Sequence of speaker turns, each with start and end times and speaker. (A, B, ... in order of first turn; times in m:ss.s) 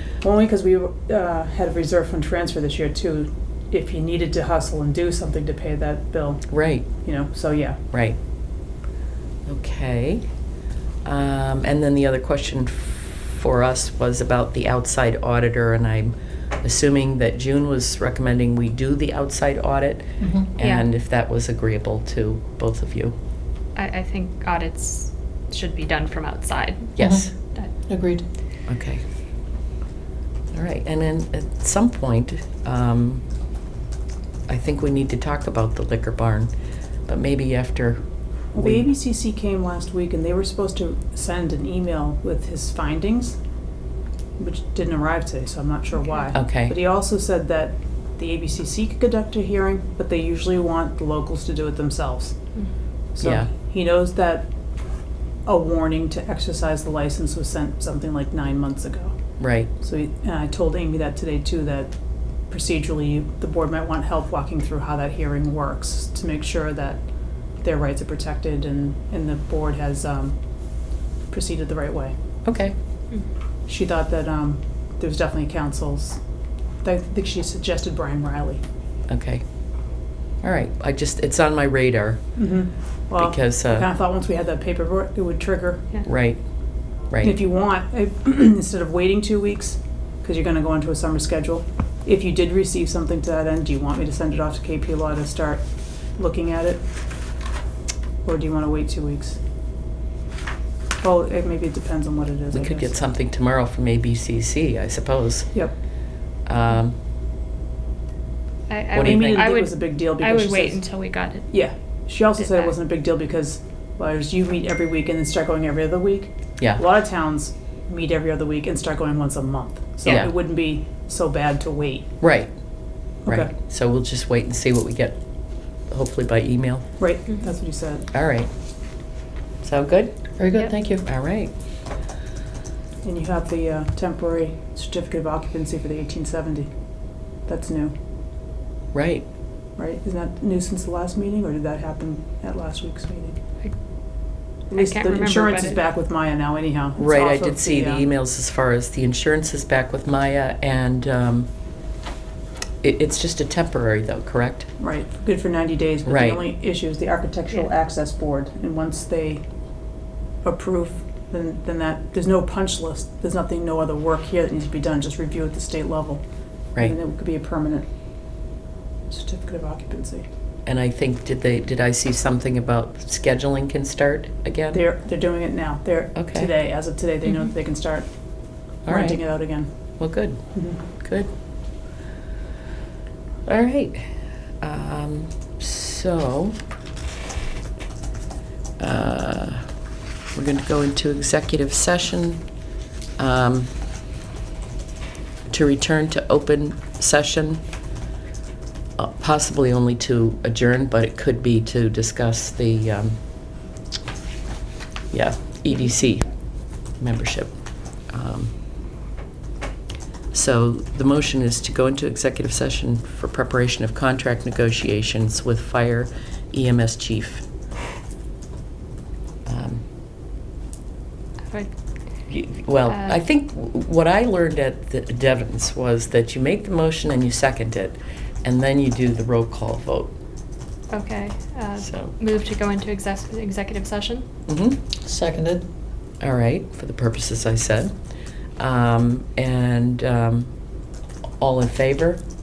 0:00.2-0:07.8 A
0:06.5-0:06.9 B
0:07.9-0:08.2 B
0:09.4-0:10.2 B
0:11.0-0:23.2 B
0:20.2-0:20.5 C
0:20.6-0:20.8 D
0:23.7-0:26.9 D
0:27.0-0:27.3 B
0:27.0-0:27.3 C
0:27.9-0:28.2 C
0:28.7-0:29.0 B
0:30.5-0:33.2 B
0:34.5-0:36.5 B
0:37.1-0:38.0 B
0:38.5-0:43.4 A
0:38.6-0:38.8 B
0:44.4-0:52.4 A
0:46.0-0:46.3 D
0:46.3-0:46.7 B
0:53.2-0:54.5 A
0:53.2-0:53.5 B
0:55.4-0:59.2 A
0:59.4-0:59.7 B
0:59.8-1:01.9 A
1:02.5-1:12.1 A
1:12.4-1:12.7 B
1:13.7-1:16.2 A
1:16.8-1:18.6 A
1:19.1-1:19.4 B
1:20.4-1:22.3 B
1:22.4-1:26.0 A
1:23.2-1:23.9 B
1:26.0-1:26.4 B
1:27.1-1:27.4 B
1:27.2-1:36.8 A
1:38.2-1:39.4 A
1:41.0-1:42.9 A
1:42.5-1:45.6 B
1:46.4-1:47.0 B
1:48.7-1:51.6 D
1:48.9-1:49.5 B
1:49.0-1:50.9 A
1:51.5-2:02.1 A
1:52.4-1:52.7 D
2:00.0-2:00.3 B
2:02.2-2:02.5 B
2:03.2-2:05.2 B
2:03.2-2:03.5 A
2:05.9-2:06.9 B
2:07.0-2:08.1 A
2:08.1-2:08.5 B
2:09.6-2:11.5 B
2:10.4-2:11.0 C
2:13.0-2:17.9 A
2:18.9-2:19.3 B
2:19.8-2:23.4 A
2:23.6-2:25.8 D
2:24.7-2:28.0 A
2:27.0-2:31.5 B
2:32.8-2:34.7 B
2:34.8-2:47.8 A
2:36.0-2:36.4 B
2:49.1-2:50.2 A
2:50.6-2:54.8 B
2:54.7-3:00.8 A
2:56.1-2:56.5 B
2:58.8-3:01.3 B
3:03.4-3:04.0 B
3:04.6-3:06.6 B
3:08.8-3:09.6 B
3:10.3-3:12.4 B
3:13.2-3:13.7 B
3:15.5-3:17.6 B
3:19.0-3:23.2 B
3:25.1-3:26.3 B
3:26.8-3:27.5 B
3:28.1-3:28.5 B
3:30.3-3:37.4 B
3:39.4-3:39.8 B
3:42.3-3:50.1 B
3:42.9-3:43.2 D
3:50.9-3:54.2 D
3:51.8-3:52.1 B
3:54.5-3:54.8 B
3:55.0-3:55.6 C
3:56.2-3:57.9 B
3:58.6-4:00.5 B
4:01.4-4:02.2 B